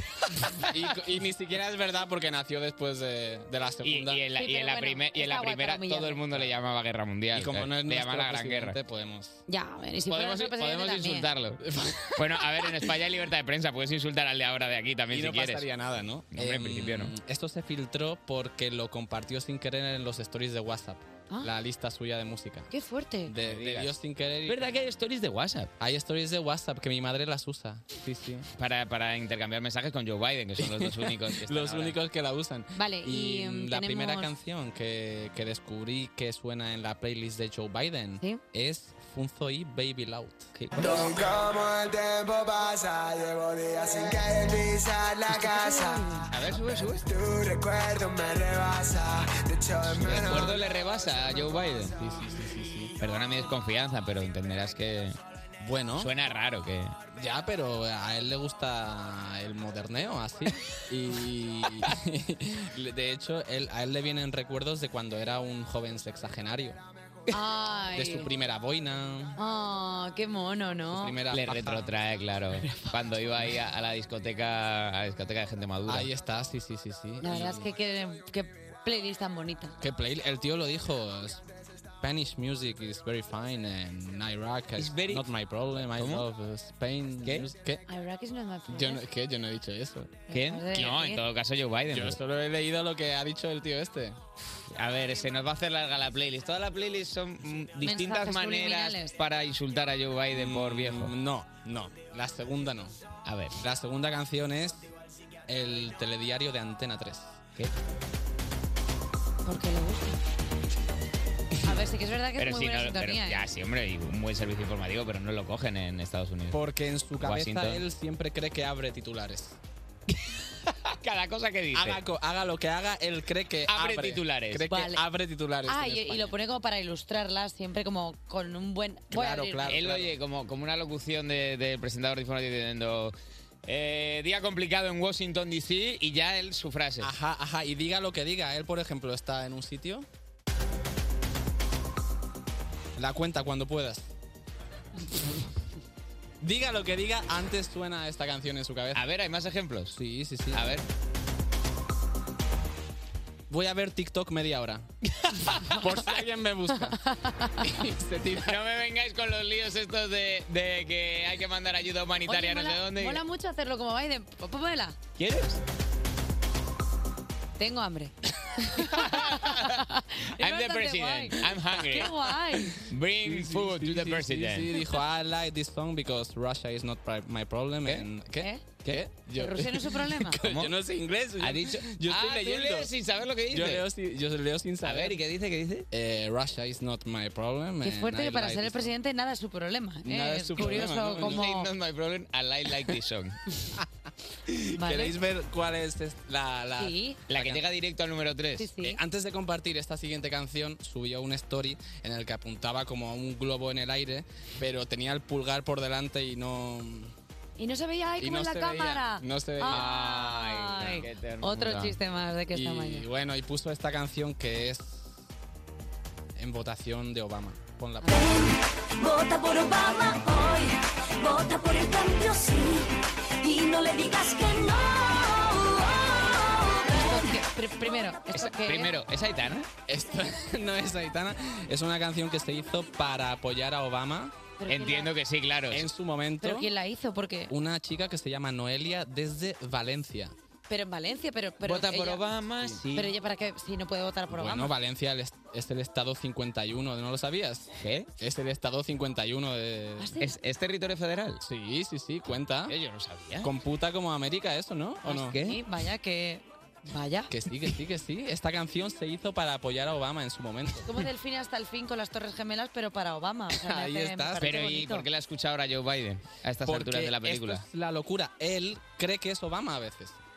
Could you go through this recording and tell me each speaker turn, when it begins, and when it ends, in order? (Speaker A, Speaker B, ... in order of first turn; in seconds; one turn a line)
Speaker A: 0.6-4.3
Speaker B: 3.8-8.8
Speaker C: 4.3-6.4
Speaker A: 7.3-9.4
Speaker C: 9.5-11.3
Speaker B: 10.1-11.6
Speaker A: 11.6-12.9
Speaker B: 12.1-15.7
Speaker A: 15.1-22.7
Speaker B: 16.3-17.1
Speaker C: 22.7-23.3
Speaker A: 23.3-24.6
Speaker B: 23.4-25.7
Speaker A: 25.8-28.5
Speaker B: 28.6-32.0
Speaker A: 30.6-40.5
Speaker C: 32.8-34.3
Speaker B: 40.5-41.5
Speaker C: 45.3-46.3
Speaker B: 46.3-47.6
Speaker B: 49.8-52.0
Speaker A: 49.9-50.4
Speaker A: 52.0-52.9
Speaker B: 53.0-55.2
Speaker A: 55.6-56.1
Speaker B: 56.0-57.0
Speaker A: 57.1-66.8
Speaker C: 67.3-68.3
Speaker A: 67.9-69.4
Speaker C: 69.4-71.2
Speaker A: 70.9-71.9
Speaker B: 71.3-76.1
Speaker A: 75.9-77.6
Speaker C: 77.2-79.7
Speaker B: 77.2-77.5
Speaker A: 79.8-81.4
Speaker A: 82.0-87.8
Speaker B: 84.8-86.3
Speaker B: 87.2-87.5
Speaker C: 87.9-89.0
Speaker A: 88.7-90.2
Speaker C: 90.3-91.2
Speaker B: 90.3-92.2
Speaker A: 91.9-94.2
Speaker B: 94.5-101.2
Speaker C: 97.8-99.1
Speaker A: 100.3-103.0
Speaker B: 103.2-103.6
Speaker A: 103.6-104.9
Speaker A: 105.5-107.4
Speaker C: 109.5-110.2
Speaker C: 111.7-113.5
Speaker B: 112.4-116.6
Speaker A: 116.5-119.6
Speaker B: 117.2-117.8
Speaker B: 120.9-122.0
Speaker A: 121.7-126.3
Speaker B: 123.7-124.7
Speaker C: 124.7-125.0
Speaker C: 125.7-129.8
Speaker A: 129.1-130.1
Speaker B: 129.6-133.1
Speaker B: 133.7-137.1
Speaker A: 137.0-140.1
Speaker A: 143.0-144.1
Speaker A: 146.4-149.0
Speaker B: 148.9-150.0
Speaker A: 149.9-150.7
Speaker B: 150.5-150.8
Speaker A: 153.5-154.9
Speaker A: 155.5-157.0
Speaker C: 157.2-157.6
Speaker A: 157.6-158.6
Speaker B: 158.4-163.2
Speaker C: 162.3-165.0
Speaker B: 165.2-165.6
Speaker C: 167.6-172.8
Speaker B: 168.8-169.8
Speaker B: 170.4-174.8
Speaker A: 173.2-182.9
Speaker B: 177.8-178.1
Speaker C: 178.3-178.8
Speaker C: 179.3-180.4
Speaker B: 180.4-180.8
Speaker B: 181.4-183.9
Speaker A: 183.5-185.2
Speaker B: 184.8-185.9
Speaker A: 185.9-188.9
Speaker C: 187.8-191.7
Speaker A: 190.1-191.4
Speaker B: 190.6-193.4
Speaker A: 194.5-197.6
Speaker C: 194.8-195.2
Speaker C: 196.8-197.2
Speaker B: 197.3-198.7
Speaker C: 198.6-199.0
Speaker A: 198.8-207.1
Speaker C: 207.6-213.1
Speaker A: 208.2-209.9
Speaker B: 209.7-212.0
Speaker A: 212.5-215.2
Speaker A: 216.4-218.2
Speaker C: 218.0-218.3
Speaker D: 218.1-226.8
Speaker C: 226.9-228.9
Speaker B: 228.3-229.7
Speaker A: 229.9-234.3
Speaker C: 234.6-235.1
Speaker B: 234.7-235.9
Speaker A: 235.7-236.7
Speaker C: 236.4-237.5
Speaker A: 237.5-240.3
Speaker C: 240.7-242.2
Speaker B: 241.6-243.1
Speaker C: 242.9-244.8
Speaker A: 244.3-250.1
Speaker B: 247.8-248.1
Speaker C: 250.0-250.3
Speaker B: 250.2-251.4
Speaker A: 251.4-252.7
Speaker B: 252.7-253.5
Speaker A: 253.4-255.3
Speaker C: 255.1-257.3
Speaker B: 255.1-255.6
Speaker A: 257.3-261.0
Speaker C: 260.9-265.1
Speaker A: 263.6-264.5
Speaker B: 264.4-267.6
Speaker A: 266.6-270.2